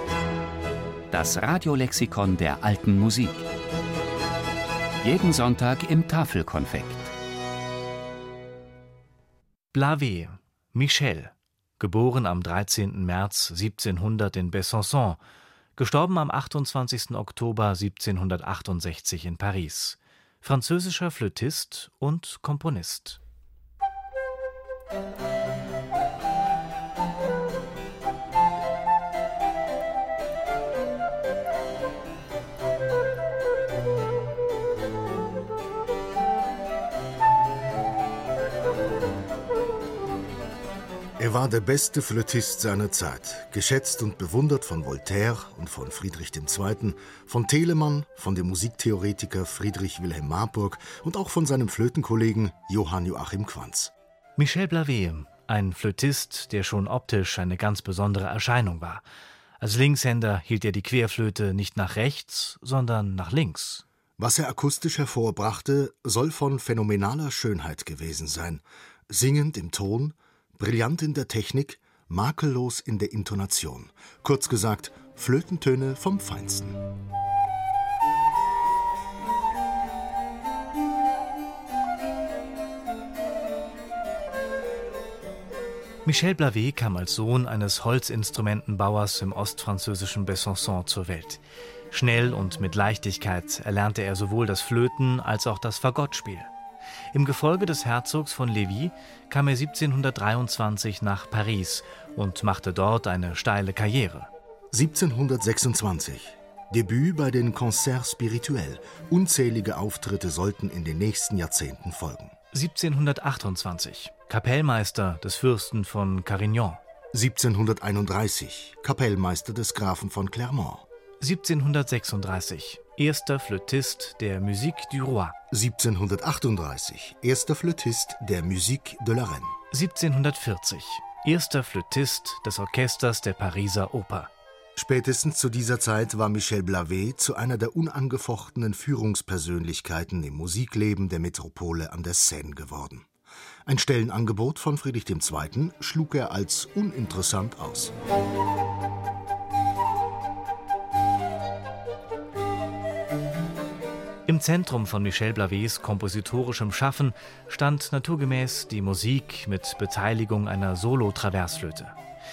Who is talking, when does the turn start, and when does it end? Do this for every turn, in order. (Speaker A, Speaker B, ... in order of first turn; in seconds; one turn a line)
Speaker A: 1.1-3.5
Speaker A: 5.0-7.1
Speaker B: 9.7-15.2
Speaker B: 15.8-23.2
Speaker C: 41.2-53.9
Speaker B: 54.4-59.0
Speaker B: 59.6-63.9
Speaker C: 64.2-76.8
Speaker B: 86.0-96.5
Speaker B: 97.1-104.3
Speaker C: 104.7-112.3
Speaker B: 112.5-116.8
Speaker C: 117.1-120.9
Speaker B: 121.2-125.4
Speaker C: 125.5-129.6
Speaker B: 129.7-134.3
Speaker C: 134.8-143.1
Speaker C: 143.7-147.9
Speaker B: 154.3-162.0